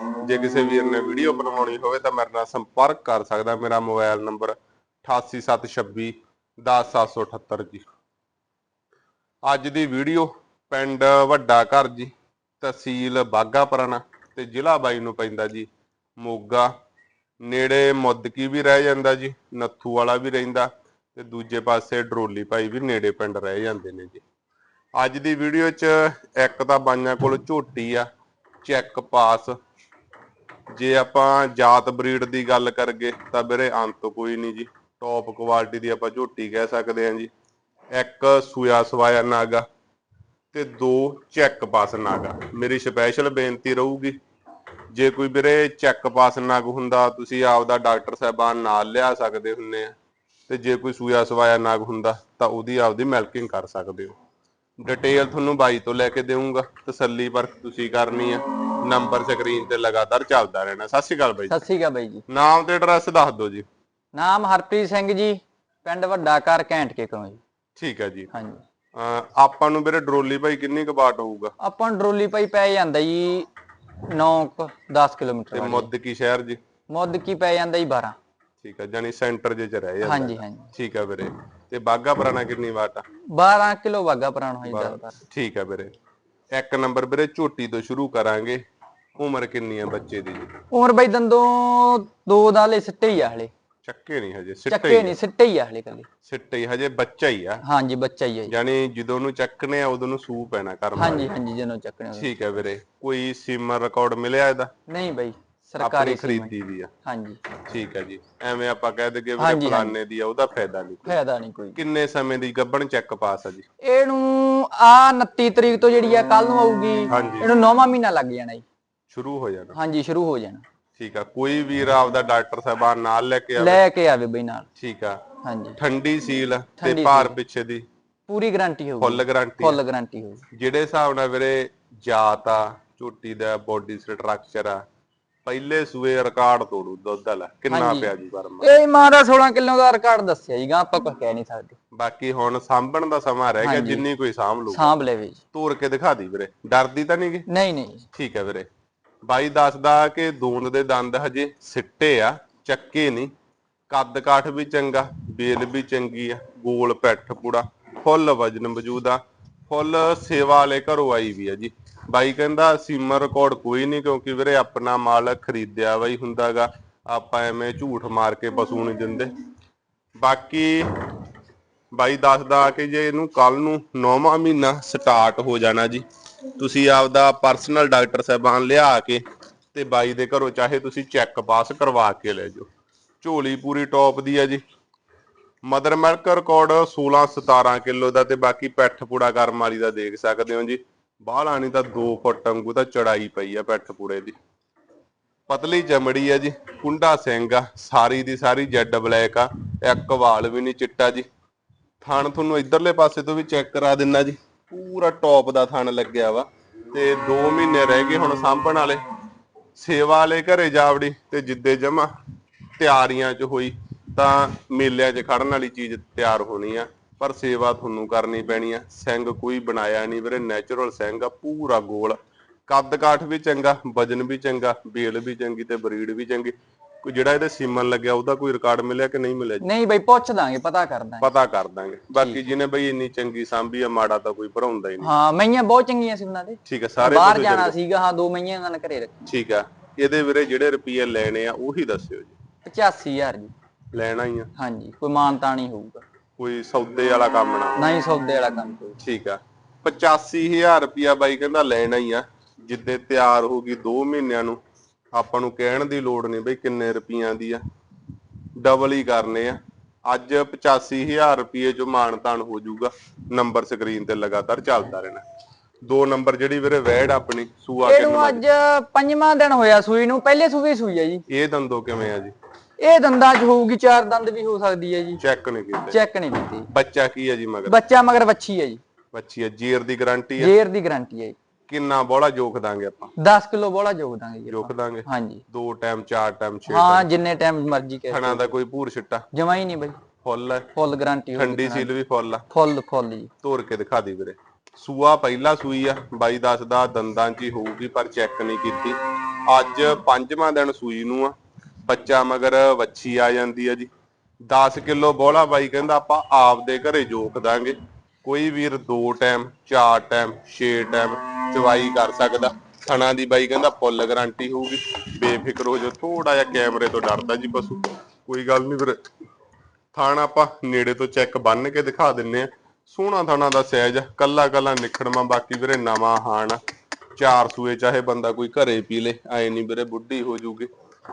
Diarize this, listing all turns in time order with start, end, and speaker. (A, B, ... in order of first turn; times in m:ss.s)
0:00.2-0:07.9 A
0:09.5-0:16.7 A
0:17.4-0:24.2 A
0:25.0-0:28.1 A
0:28.6-0:29.6 A
0:30.7-0:37.3 A
0:37.9-0:39.6 A
0:40.5-0:44.2 A
0:44.9-0:49.9 A
0:50.5-0:54.2 A
0:54.8-1:01.6 A
1:01.5-1:02.2 B
1:02.3-1:03.7 A
1:04.1-1:07.4 B
1:07.8-1:08.3 A
1:08.3-1:08.6 B
1:09.0-1:11.5 A
1:11.6-1:13.5 B
1:14.1-1:15.9 B
1:15.5-1:16.6 A
1:16.9-1:18.2 B
1:18.6-1:23.0 A
1:20.0-1:20.7 B
1:23.3-1:25.2 B
1:24.7-1:25.9 A
1:26.5-1:28.6 A
1:29.2-1:30.5 A
1:30.7-1:33.5 B
1:33.8-1:35.2 A
1:34.7-1:36.1 B
1:36.3-1:37.6 A
1:37.6-1:38.5 B
1:38.5-1:41.3 A
1:41.0-1:42.3 B
1:42.2-1:44.7 A
1:44.9-1:46.5 B
1:45.8-1:46.9 A
1:47.0-1:47.4 B
1:47.6-1:51.2 A
1:49.4-1:49.9 B
1:51.1-1:51.8 B
1:51.8-1:53.7 A
1:53.8-1:58.6 B
1:57.1-1:57.5 A
1:59.1-1:59.8 A
1:59.8-2:00.6 B
2:01.0-2:03.8 A
2:03.6-2:04.7 B
2:04.8-2:05.2 A
2:05.4-2:05.8 B
2:05.8-2:07.8 A
2:06.8-2:07.4 B
2:08.3-2:10.4 B
2:09.0-2:09.8 A
2:10.5-2:14.8 A
2:15.4-2:18.7 A
2:17.7-2:21.8 B
2:22.0-2:24.9 A
2:23.6-2:24.1 B
2:24.7-2:25.4 B
2:25.5-2:27.5 A
2:27.5-2:28.1 B
2:28.2-2:28.7 A
2:29.2-2:33.3 A
2:33.9-2:49.3 A
2:50.2-2:50.9 A
2:52.0-2:56.0 A
2:56.6-2:59.2 A
2:59.7-3:02.7 A
3:03.2-3:04.6 A
3:05.6-3:14.4 A
3:15.5-3:21.3 A
3:22.0-3:29.0 A
3:29.8-3:32.1 A
3:32.8-3:49.7 A
3:49.6-3:51.3 B
3:51.2-3:55.1 A
3:52.2-3:52.4 B
3:55.0-3:59.3 B
3:56.7-3:57.8 A
3:59.3-4:02.4 A
4:02.7-4:03.5 B
4:03.9-4:04.5 A
4:04.6-4:06.0 B
4:06.4-4:07.8 A
4:07.8-4:09.0 B
4:09.0-4:14.6 A
4:15.1-4:17.6 A
4:18.6-4:25.2 A
4:25.8-4:28.4 A
4:27.8-4:31.2 B
4:31.3-4:32.3 A
4:32.8-4:35.2 B
4:35.2-4:36.0 A
4:35.8-4:36.7 B
4:36.7-4:37.8 A
4:37.7-4:38.8 B
4:39.1-4:40.5 A
4:40.4-4:41.4 B
4:41.7-4:43.1 A
4:43.2-4:45.4 B
4:44.5-4:47.1 A
4:46.7-4:48.5 B
4:48.1-4:49.3 A
4:49.3-4:50.0 B
4:50.2-4:50.7 A
4:50.8-4:51.9 B
4:51.4-4:52.4 A
4:52.5-4:53.3 B
4:53.4-5:01.4 A
5:01.9-5:03.9 A
5:04.4-5:19.0 A
5:19.9-5:26.6 A
5:27.2-5:30.7 A